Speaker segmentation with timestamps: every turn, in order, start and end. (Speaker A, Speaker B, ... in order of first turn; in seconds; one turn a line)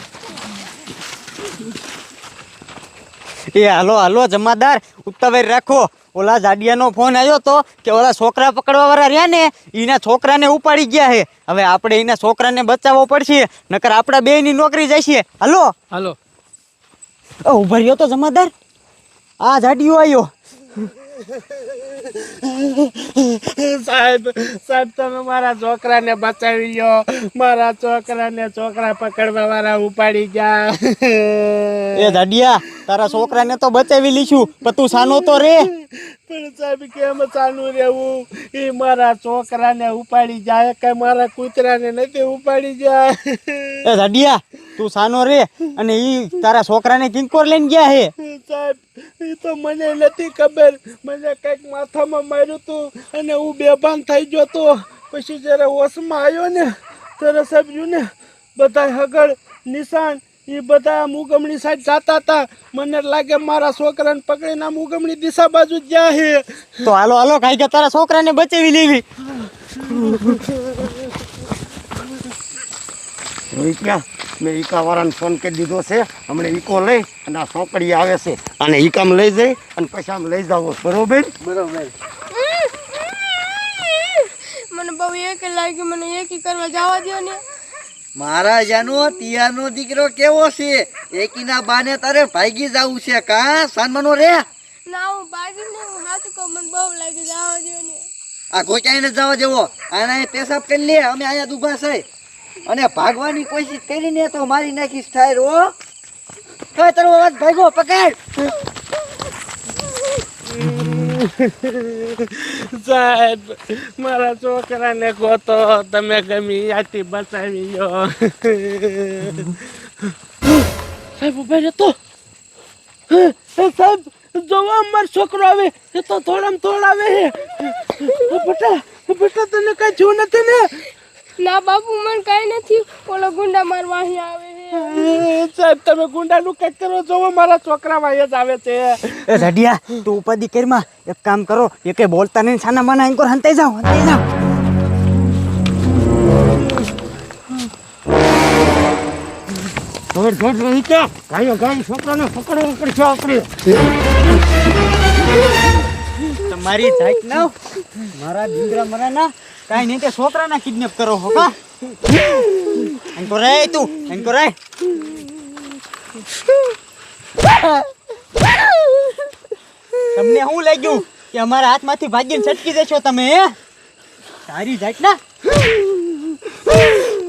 Speaker A: 3.5-15.7
Speaker A: 17.4-18.5
Speaker A: 19.4-20.3
Speaker B: 23.0-31.8
Speaker A: 31.9-35.7
Speaker B: 36.3-43.7
Speaker A: 43.8-48.1
Speaker B: 49.5-56.6
Speaker B: 57.3-58.0
Speaker B: 58.6-66.4
Speaker A: 66.8-69.0
Speaker C: 73.5-81.4
Speaker D: 82.4-87.4
Speaker E: 88.2-94.4
Speaker D: 94.9-98.0
Speaker E: 98.5-102.0
Speaker E: 102.7-105.7
Speaker E: 106.7-108.2
Speaker B: 110.6-119.6
Speaker B: 121.2-121.9
Speaker B: 123.1-129.9
Speaker D: 131.4-135.2
Speaker B: 135.0-139.0
Speaker A: 139.3-144.2
Speaker C: 150.1-153.7
Speaker A: 156.4-157.5
Speaker A: 158.1-161.5
Speaker A: 162.9-164.6
Speaker A: 170.1-173.5
Speaker A: 174.5-175.2